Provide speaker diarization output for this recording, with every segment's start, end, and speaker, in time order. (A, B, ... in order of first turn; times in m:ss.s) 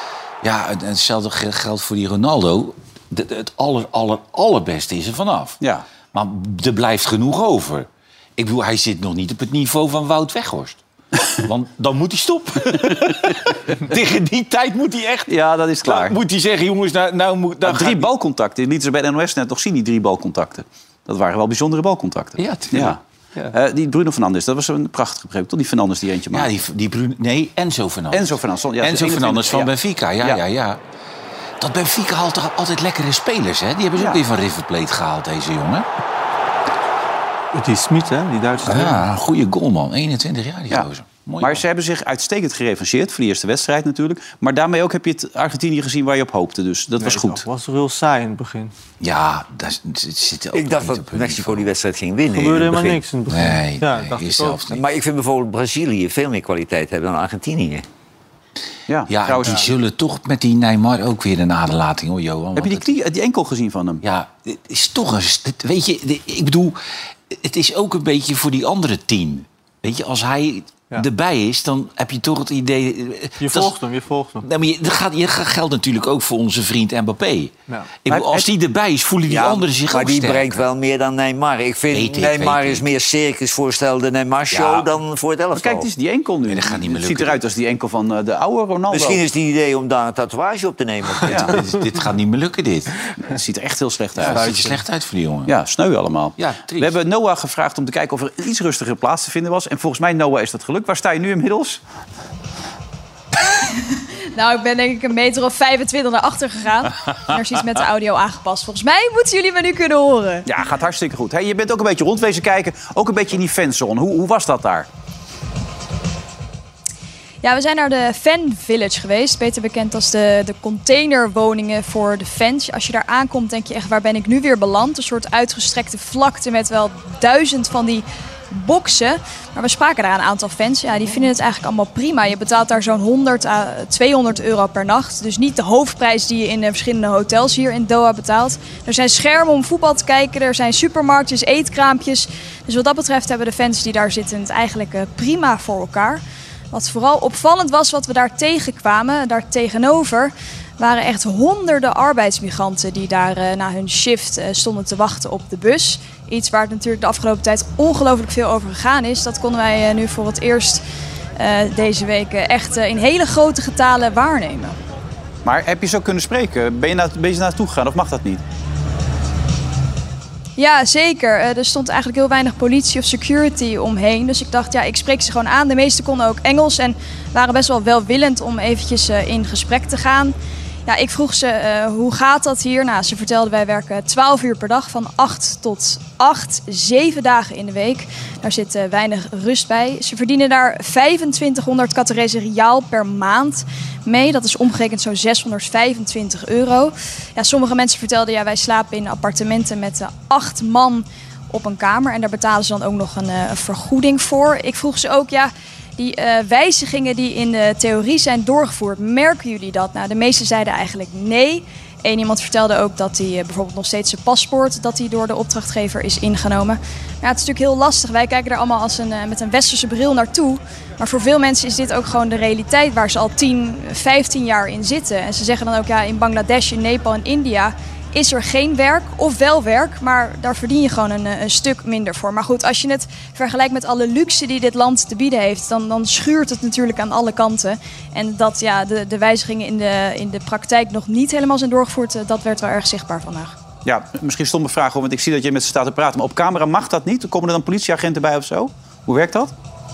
0:00.4-0:05.6 A
0:06.1-0:10.8 A
0:11.4-0:18.1 A
0:15.3-0:16.2 B
0:17.6-0:26.5 B
0:22.4-0:23.5 A
0:26.3-0:30.8 A
0:28.1-0:30.4 B
0:31.6-0:35.9 A
0:37.5-0:39.0 C
0:38.6-0:41.6 A
0:41.4-0:47.4 B
0:47.0-0:48.7 C
0:49.0-0:51.7 A
0:50.5-0:53.0 D
0:52.3-0:54.6 C
0:53.3-0:54.8 A
0:54.7-0:57.8 D
0:58.9-0:59.7 B
0:59.1-1:03.0 A
1:02.6-1:04.0 B
1:04.0-1:06.8 A
1:07.3-1:13.8 A
1:13.4-1:14.5 C
1:14.4-1:17.5 A
1:18.0-1:20.6 A
1:18.1-1:18.5 B
1:19.3-1:19.6 B
1:19.9-1:25.9 D
1:21.9-1:22.8 A
1:24.5-1:24.9 A
1:25.6-1:29.2 B
1:26.5-1:27.4 A
1:28.9-1:31.6 D
1:31.2-1:31.6 B
1:31.3-1:33.1 A
1:33.2-1:34.5 B
1:34.2-1:35.5 A
1:34.3-1:34.8 C
1:35.5-1:41.8 B
1:36.4-1:37.0 A
1:43.7-1:50.5 E
1:50.5-1:54.9 B
1:57.4-2:40.8 E
2:41.4-2:44.8 E
2:45.4-2:48.4 B
2:50.6-3:00.3 E
3:00.9-4:03.6 E
4:03.8-4:09.5 B